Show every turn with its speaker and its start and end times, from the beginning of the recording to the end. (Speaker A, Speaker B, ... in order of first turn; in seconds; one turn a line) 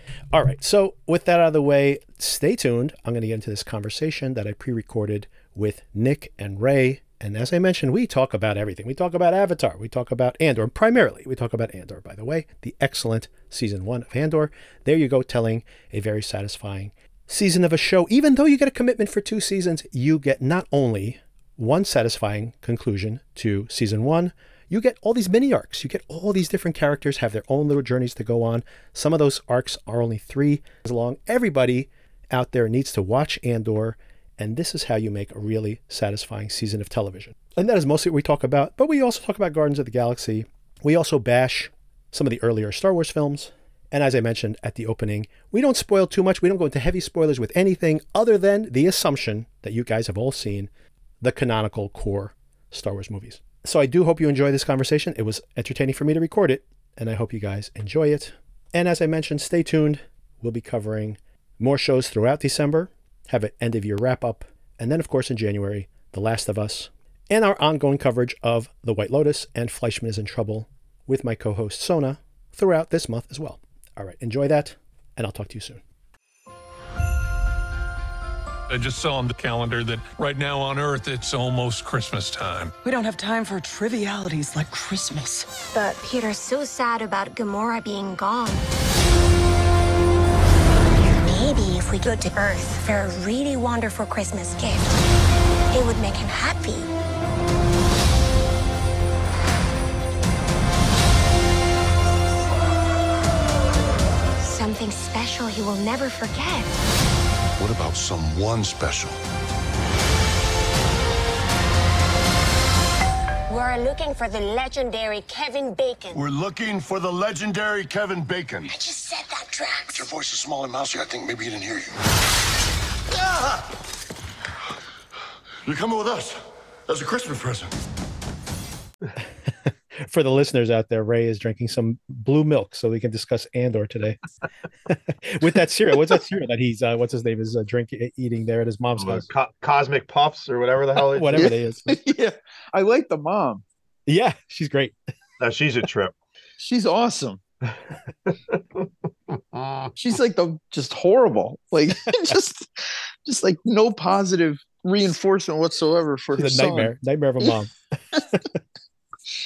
Speaker A: 0.3-50.7
Speaker A: 51.2-75.8
Speaker B: 78.7-82.8
Speaker C: 82.8-85.5
Speaker D: 85.7-88.7
Speaker D: 91.2-94.9
Speaker D: 95.7-96.9
Speaker D: 104.4-106.7
Speaker E: 107.6-109.2
Speaker D: 113.5-116.2
Speaker E: 116.1-118.8
Speaker D: 118.8-119.9
Speaker E: 119.9-121.9
Speaker E: 125.7-127.8
Speaker A: 129.7-134.2
Speaker A: 134.9-139.2
Speaker F: 139.0-141.5
Speaker A: 141.1-142.0
Speaker G: 141.4-143.6
Speaker A: 144.1-144.9
Speaker F: 145.4-146.1
Speaker G: 146.6-147.4
Speaker F: 148.3-149.9
Speaker G: 150.0-156.9
Speaker A: 156.3-158.5